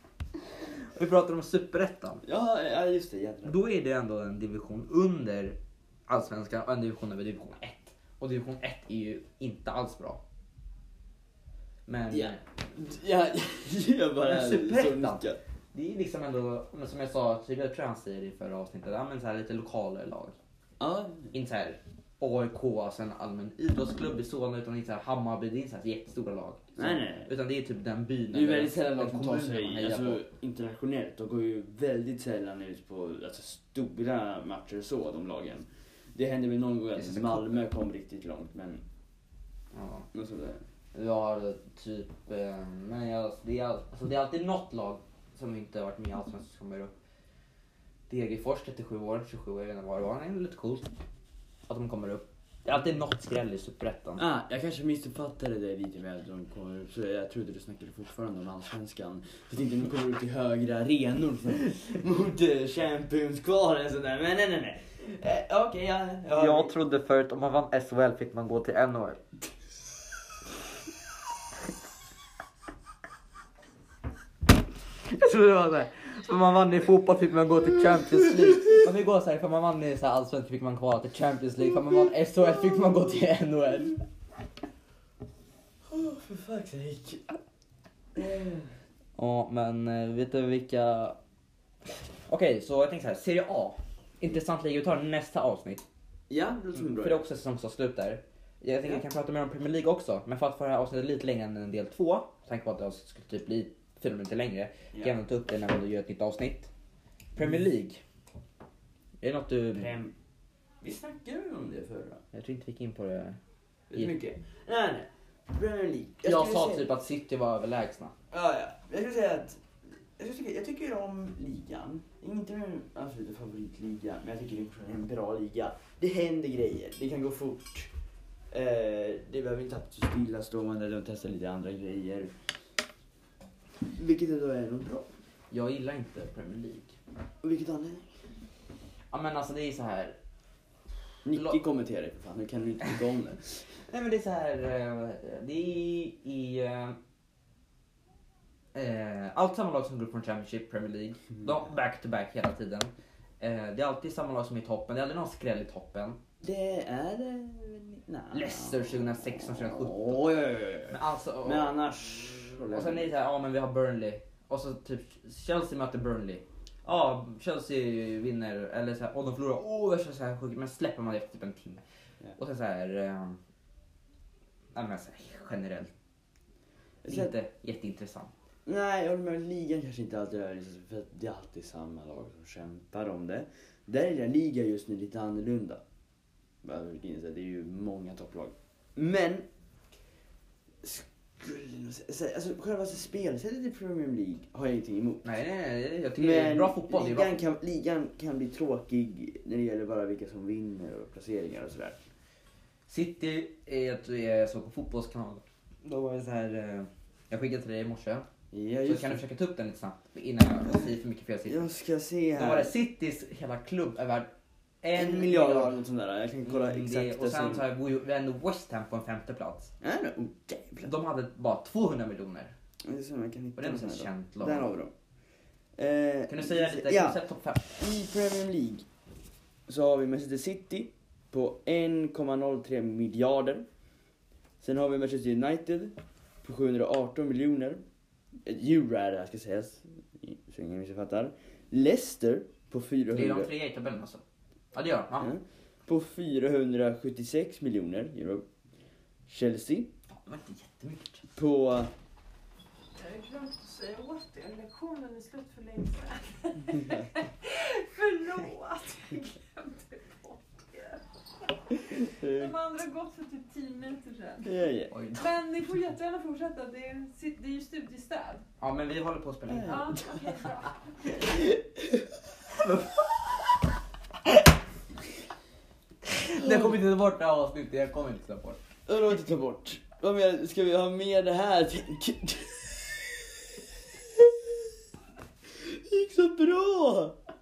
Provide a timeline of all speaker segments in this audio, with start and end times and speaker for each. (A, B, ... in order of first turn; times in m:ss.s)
0:00.7-0:02.2 A
0:02.2-0:03.6 B
0:03.4-0:05.6 A
0:06.1-0:10.2 A
0:11.9-0:12.4 A
0:12.1-0:15.4 B
0:14.2-0:20.4 A
0:20.8-0:21.3 B
0:21.3-0:30.2 A
0:26.8-0:27.3 B
0:28.3-0:38.8 B
0:37.0-0:37.6 A
0:39.7-0:40.1 A
0:40.1-0:40.6 B
0:41.0-0:46.9 A
0:48.1-0:50.9 A
0:51.7-0:54.2 A
0:54.2-1:06.7 B
1:06.3-1:09.2 A
1:15.1-1:24.0 A
1:17.9-1:18.8 B
1:25.9-1:27.4 B
1:28.2-1:28.7 B
1:29.2-1:31.2 A
1:31.9-1:35.8 A
1:36.3-1:37.3 B
1:36.8-1:46.7 A
1:47.4-1:48.0 A
1:49.2-1:50.0 A
1:49.8-1:50.1 B
1:50.8-1:52.2 B
1:52.3-1:53.4 A
1:53.9-1:56.9 B
1:56.2-1:58.1 A
1:58.3-1:59.6 B
2:00.2-2:07.9 B
2:08.5-2:12.3 B
2:13.9-2:15.1 B
2:15.5-2:17.0 A
2:17.4-2:18.1 B
2:19.1-2:20.2 A
2:21.2-2:23.6 B
2:21.3-2:21.6 A
2:23.8-2:27.0 A
2:28.7-2:36.2 A
2:36.4-2:43.1 B
2:38.3-2:41.8 A
2:42.7-2:51.8 A
2:52.4-2:53.4 A
2:54.8-2:55.9 A
2:57.0-2:57.3 B
2:57.1-2:58.3 A
2:58.7-3:05.8 B
3:06.6-3:09.5 B
3:10.8-3:15.3 B
3:15.2-3:17.4 A
3:16.2-3:22.0 B
3:22.9-3:28.3 A
3:28.5-3:29.2 B
3:28.8-3:31.7 A
3:30.7-3:32.7 B
3:32.4-3:34.3 A
3:34.8-3:35.8 A
3:34.9-3:37.7 B
3:36.4-3:39.7 A
3:39.8-3:40.9 B
3:40.8-3:42.5 A
3:42.8-3:44.9 B
3:43.6-3:44.7 A
3:45.8-3:47.2 B
3:46.3-3:47.8 A
3:47.8-3:48.9 B
3:49.7-3:53.6 B
3:54.6-3:57.8 B
3:58.5-4:03.5 B
4:03.1-4:04.2 A
4:04.7-4:05.3 A
4:05.2-4:08.5 B
4:09.3-4:09.9 B
4:10.1-4:11.2 A
4:11.4-4:11.9 B
4:13.0-4:21.0 C
4:21.7-4:24.5 C
4:21.8-4:22.6 B
4:24.4-4:25.0 B
4:24.9-4:25.4 A
4:25.2-4:28.4 C
4:28.6-4:30.1 A
4:29.5-4:30.2 B
4:29.6-4:31.1 C
4:31.2-4:32.1 B
4:32.5-4:33.5 A
4:36.1-4:38.6 A
4:36.4-4:36.8 B
4:38.9-4:44.7 B
4:45.6-4:47.2 B